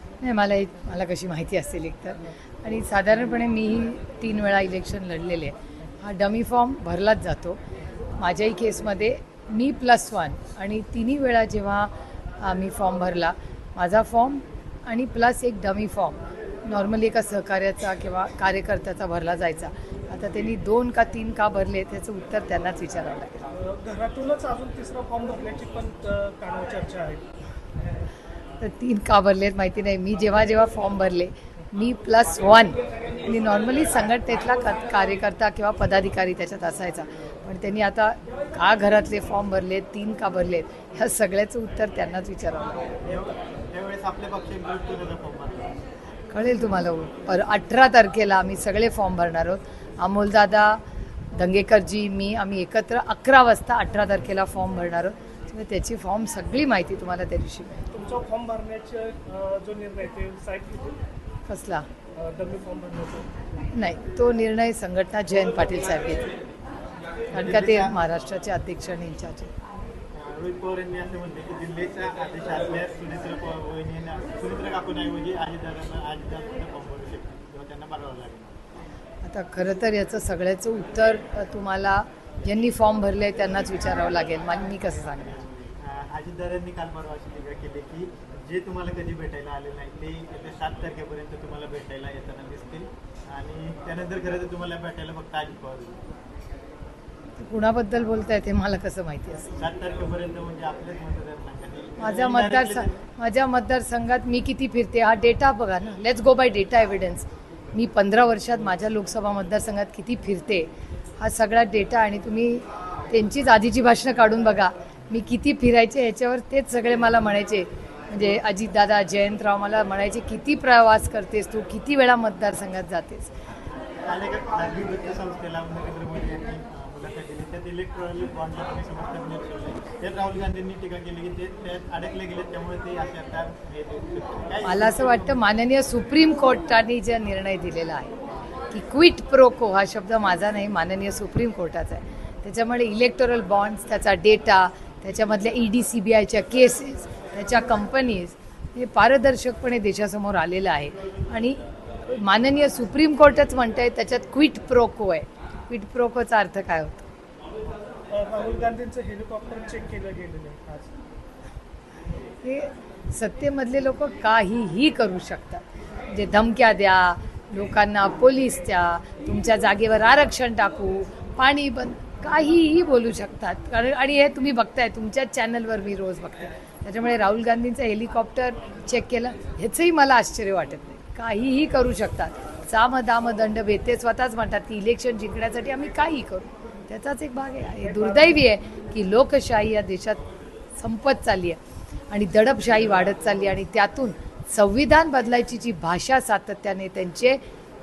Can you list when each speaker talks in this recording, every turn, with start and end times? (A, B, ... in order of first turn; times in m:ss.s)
0:00.2-0:07.6 A
0:08.2-0:23.4 A
0:23.5-0:27.3 B
0:28.6-0:42.9 A
0:43.0-0:45.8 C
0:46.3-0:50.8 A
0:51.3-0:57.8 A
0:57.9-1:01.0 B
1:01.5-1:01.8 A
1:02.2-1:03.3 B
1:03.7-1:06.3 A
1:07.3-1:08.0 C
1:07.3-1:09.5 A
1:10.1-1:18.6 C
1:19.2-1:25.4 A
1:25.2-1:36.0 C
1:37.4-1:39.5 A
1:39.6-1:43.0 C
1:42.0-1:50.7 A
1:51.2-2:03.3 A
2:04.0-2:15.3 C
2:14.6-2:18.1 A
2:18.7-2:37.1 A
2:38.1-2:40.9 B
2:42.4-3:10.2 A
3:07.8-3:08.4 B
3:10.8-3:11.6 A
3:12.1-3:17.4 A